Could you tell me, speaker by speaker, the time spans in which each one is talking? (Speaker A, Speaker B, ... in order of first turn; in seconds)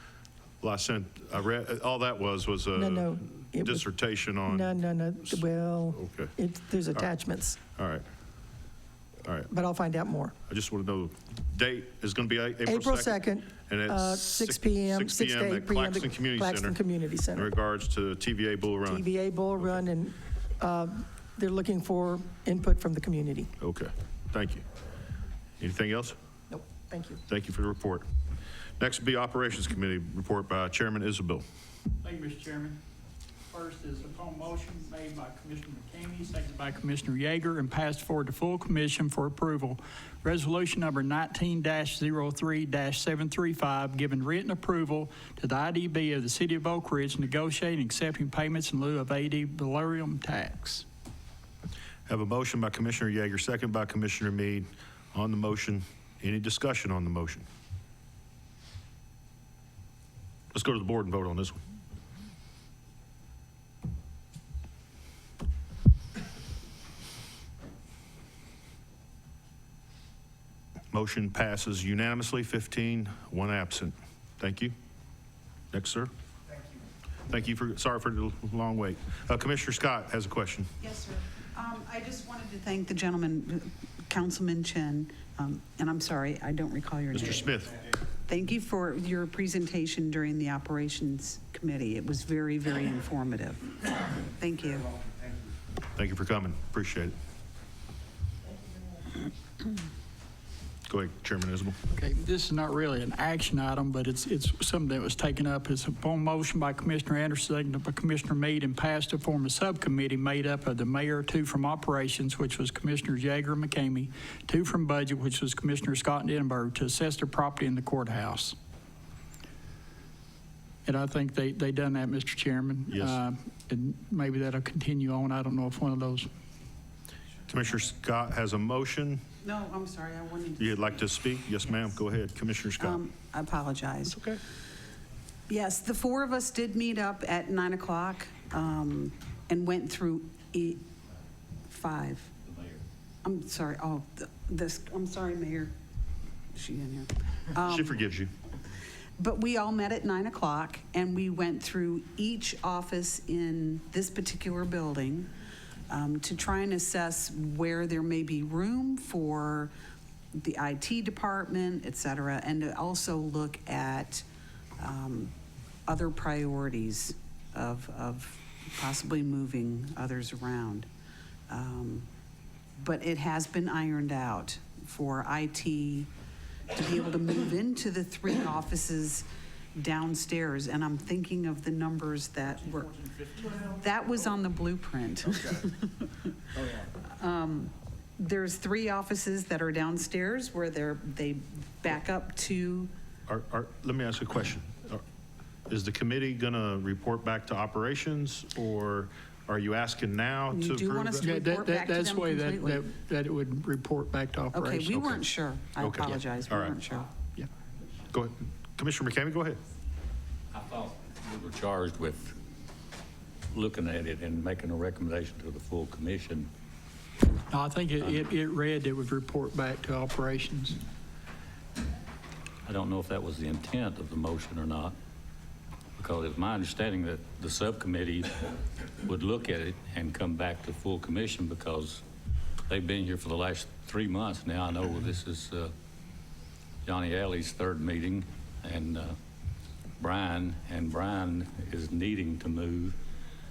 Speaker A: 0.6-4.7, 5.9-6.3, 7.8-8.1, 9.2-9.5, 10.5-16.8, 17.3-19.1, 23.6-24.6, 25.6-26.2, 27.3-28.1, 28.8-31.4, 52.1-57.5, 60.5-61.6, 70.9-74.7, 75.7-76.1, 77.3-80.7, 87.1-87.8, 95.9-97.1, 100.9-101.8, 122.9-123.2, 127.5-129.2, 130.6-133.0, 134.1-134.4, 147.7-148.3, 193.3-195.0, 195.7-201.3, 205.8-206.8, 208.1-209.6
Speaker B: 2.8-3.9, 4.5-7.6, 9.5-10.3, 12.7-17.5, 18.9-23.5, 26.5-27.2
Speaker C: 32.0-32.8, 33.5-50.9, 101.9-118.6, 120.9-126.3, 201.2-205.2, 217.5-220.8
Speaker D: 80.8-87.5, 88.3-95.0, 129.4-131.0, 132.8-134.2, 135.5-140.8, 141.7-142.3, 143.2-145.7, 146.5-148.0, 149.2-155.3, 155.9-159.7, 160.3-164.3, 164.8-165.3, 165.9-170.9, 171.5-172.1, 172.8-176.1, 176.7-186.1, 186.8-192.9, 200.5-202.9, 204.5-207.1
Speaker E: 210.5-212.4, 213.5-216.5, 222.6-224.9, 226.0-232.0, 232.7-235.7, 236.8-239.2, 240.0-243.0